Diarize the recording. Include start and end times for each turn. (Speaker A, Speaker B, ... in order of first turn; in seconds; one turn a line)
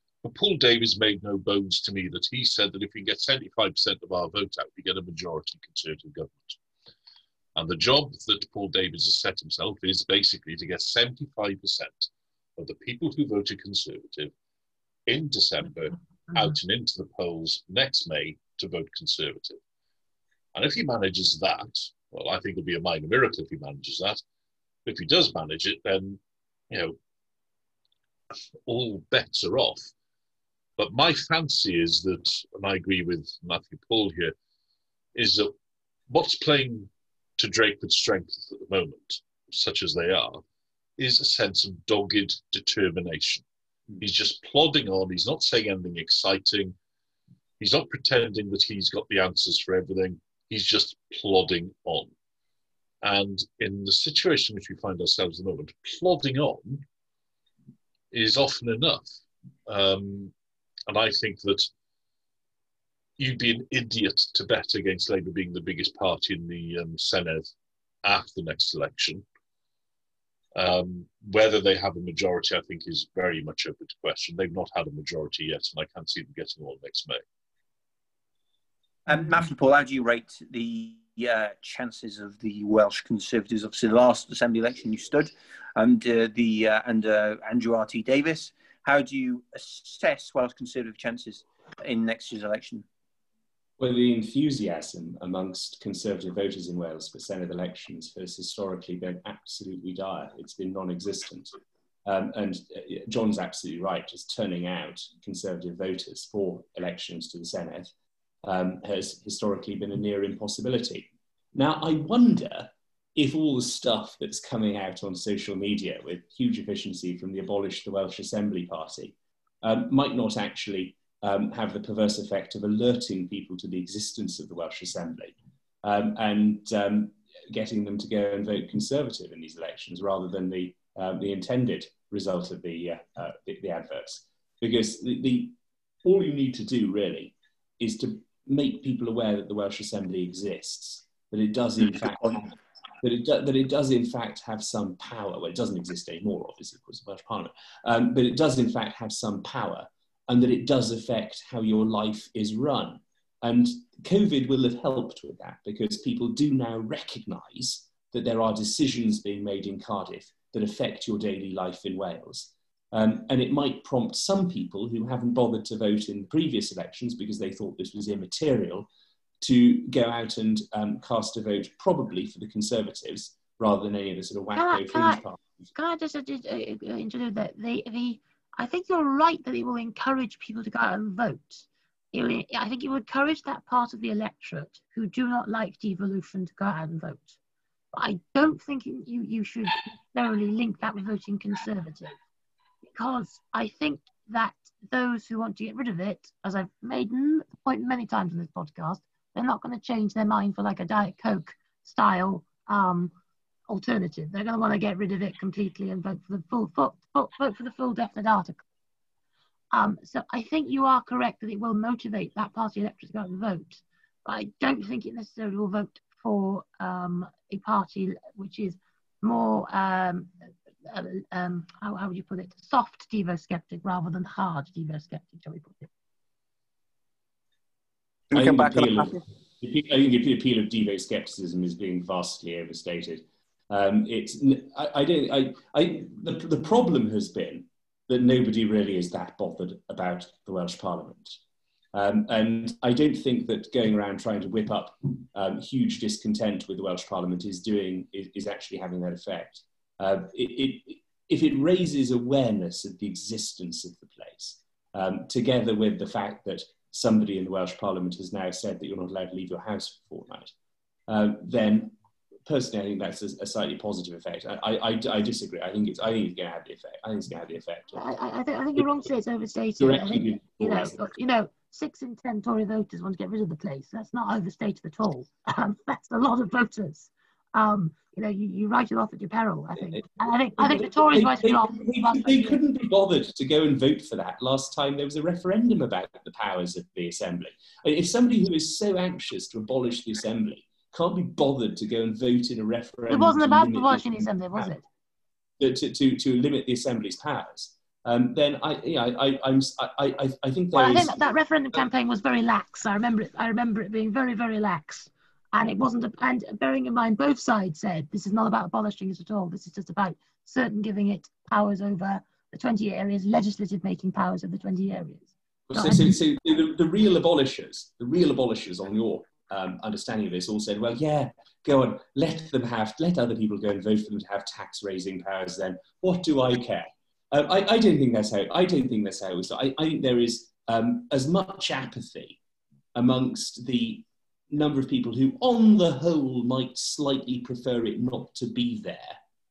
Speaker A: 0.2-6.6
Speaker A: 7.5-14.3
Speaker A: 15.1-19.6
Speaker A: 20.5-24.2
Speaker A: 24.9-26.2
Speaker A: 26.7-26.9
Speaker A: 28.7-29.9
Speaker A: 30.8-34.3
Speaker A: 35.1-35.5
Speaker A: 36.1-40.4
Speaker A: 41.0-43.5
Speaker A: 44.0-46.8
Speaker A: 47.6-52.1
Speaker A: 53.0-56.9
Speaker A: 58.1-59.1
Speaker A: 59.7-60.3
Speaker A: 60.9-61.7
Speaker A: 63.2-67.5
Speaker A: 68.0-69.2
Speaker A: 70.5-77.2
Speaker B: 79.1-92.9
Speaker C: 93.8-107.9
Speaker C: 108.4-168.9
Speaker C: 169.4-175.4
Speaker D: 174.5-175.2
Speaker D: 175.8-187.4
Speaker D: 187.9-192.2
Speaker D: 192.8-203.1
Speaker D: 203.7-208.6
Speaker D: 209.7-220.3
Speaker D: 220.9-225.9
Speaker C: 228.3-241.4
Speaker B: 228.3-229.2
Speaker C: 241.9-260.5
Speaker C: 261.1-261.9
Speaker C: 262.5-268.0
Speaker D: 267.9-282.6
Speaker C: 269.8-271.1
Speaker C: 279.9-294.7
Speaker D: 293.1-294.9
Speaker C: 295.6-301.2
Speaker D: 300.7-316.1
Speaker C: 315.7-332.4
Speaker C: 332.9-339.2